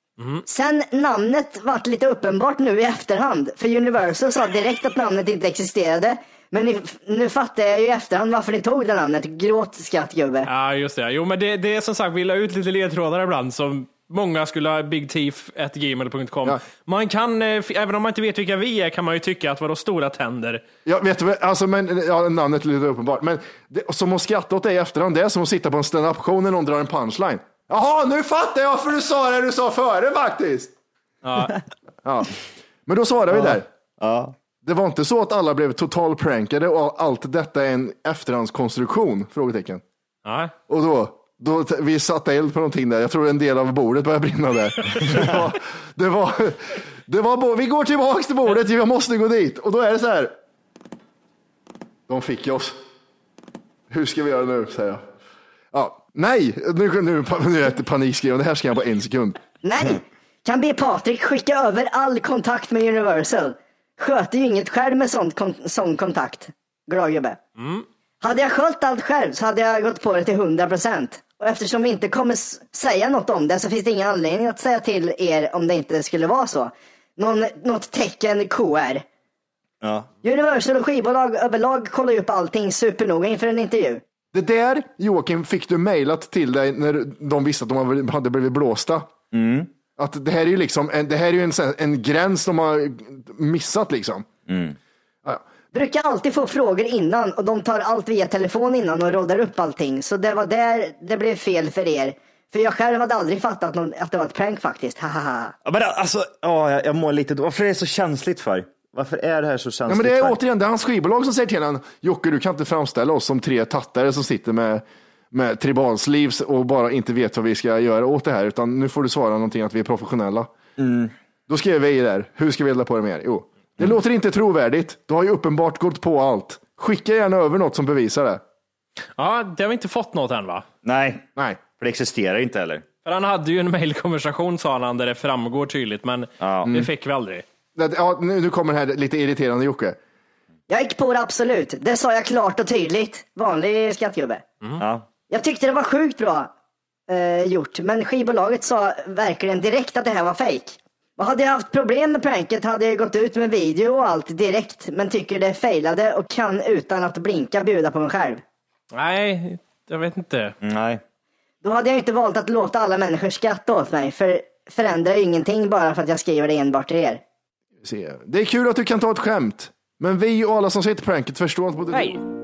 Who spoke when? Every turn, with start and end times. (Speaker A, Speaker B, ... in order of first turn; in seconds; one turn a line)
Speaker A: 0.5-10.5
Speaker B: 10.4-20.6
Speaker C: 20.9-30.7
Speaker B: 31.2-31.6
Speaker C: 32.0-32.3
Speaker C: 32.9-33.7
Speaker D: 33.3-34.3
Speaker C: 34.6-39.8
Speaker B: 40.2-40.5
Speaker C: 40.7-50.3
Speaker C: 52.1-52.8
Speaker C: 53.9-55.1
Speaker C: 55.7-59.4
Speaker A: 59.6-67.4
Speaker B: 67.6-67.9
Speaker A: 68.2-79.0
Speaker D: 79.8-80.1
Speaker A: 80.2-84.0
Speaker C: 84.3-89.1
Speaker D: 89.3-89.7
Speaker C: 90.0-94.3
Speaker D: 94.5-94.8
Speaker A: 95.7-105.5
Speaker D: 105.7-110.4
Speaker C: 109.9-120.5
Speaker D: 120.8-121.1
Speaker C: 121.5-128.4
Speaker B: 129.2-130.7
Speaker D: 130.8-131.3
Speaker C: 131.4-131.6
Speaker D: 131.8-132.8
Speaker B: 133.1-137.4
Speaker D: 136.4-136.7
Speaker C: 137.8-140.0
Speaker A: 140.7-144.4
Speaker D: 144.8-145.1
Speaker A: 145.3-146.5
Speaker A: 147.1-158.4
Speaker B: 158.9-160.6
Speaker D: 160.6-161.0
Speaker A: 161.6-167.2
Speaker C: 167.8-172.2
Speaker B: 171.9-172.2